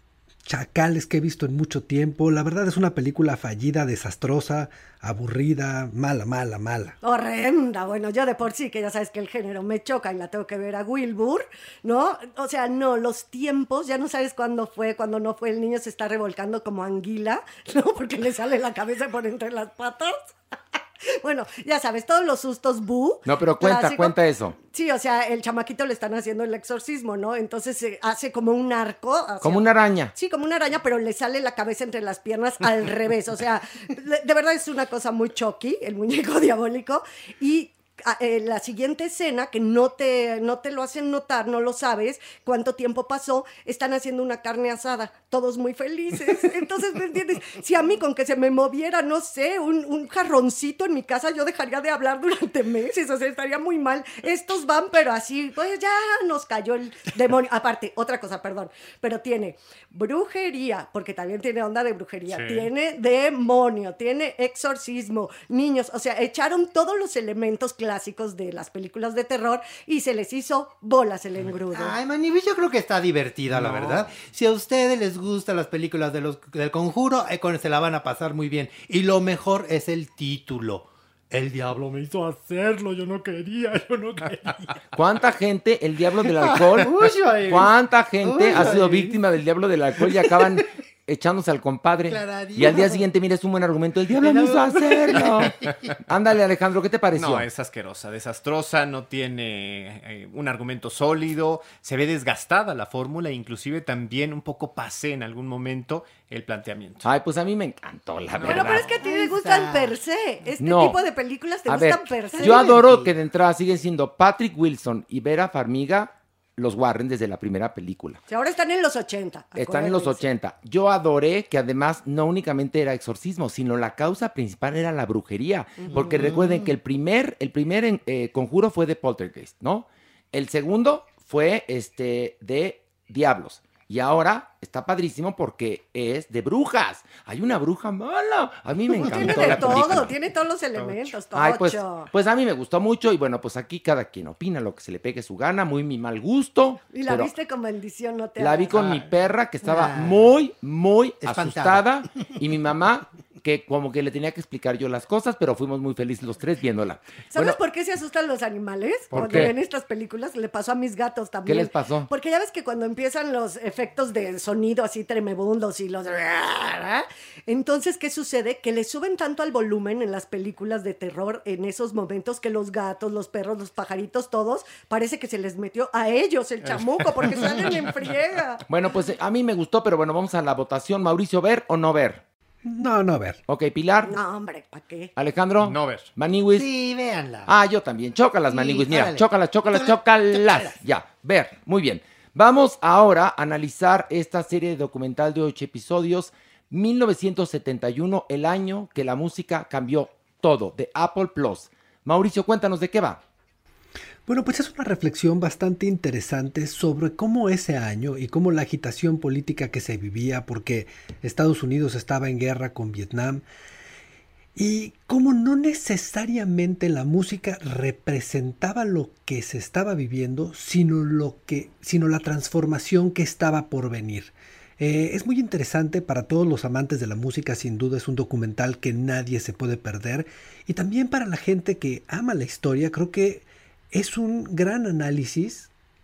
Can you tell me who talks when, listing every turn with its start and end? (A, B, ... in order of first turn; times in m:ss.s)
0:00.4-0:07.0 A
0:07.0-0:20.2 B
0:21.1-1:12.0 B
0:23.2-0:24.6 C
0:29.4-0:30.1 C
1:02.3-1:02.7 D
1:11.7-1:24.8 E
1:13.5-1:14.2 D
1:24.9-1:37.5 C
1:26.4-1:29.2 E
1:30.0-1:30.5 E
1:32.1-1:33.0 E
1:34.1-1:35.8 E
1:37.2-1:47.0 D
1:47.0-1:48.9 C
1:48.4-1:52.8 B
1:48.5-1:50.0 E
1:50.6-1:51.0 C
1:51.7-1:58.2 C
1:52.4-1:53.1 E
1:58.3-2:00.2 B
1:59.6-2:20.2 C
2:05.9-2:06.7 E
2:18.9-2:22.1 B
2:20.8-2:21.1 D
2:21.3-2:27.3 C
2:26.9-2:28.8 B
2:28.4-2:37.6 C
2:29.6-2:30.4 E
2:31.2-2:32.3 E
2:37.3-2:58.6 B
2:39.1-2:39.5 C
2:41.5-2:42.1 C
2:56.7-2:57.8 D
2:58.7-3:02.2 C
3:02.6-3:03.4 A
3:03.5-3:04.2 C
3:04.0-3:05.1 B
3:05.2-3:06.7 C
3:05.6-3:06.1 D
3:06.5-3:07.5 E
3:07.5-3:23.2 C
3:08.5-3:10.8 E
3:24.3-3:33.4 A
3:34.6-3:55.7 A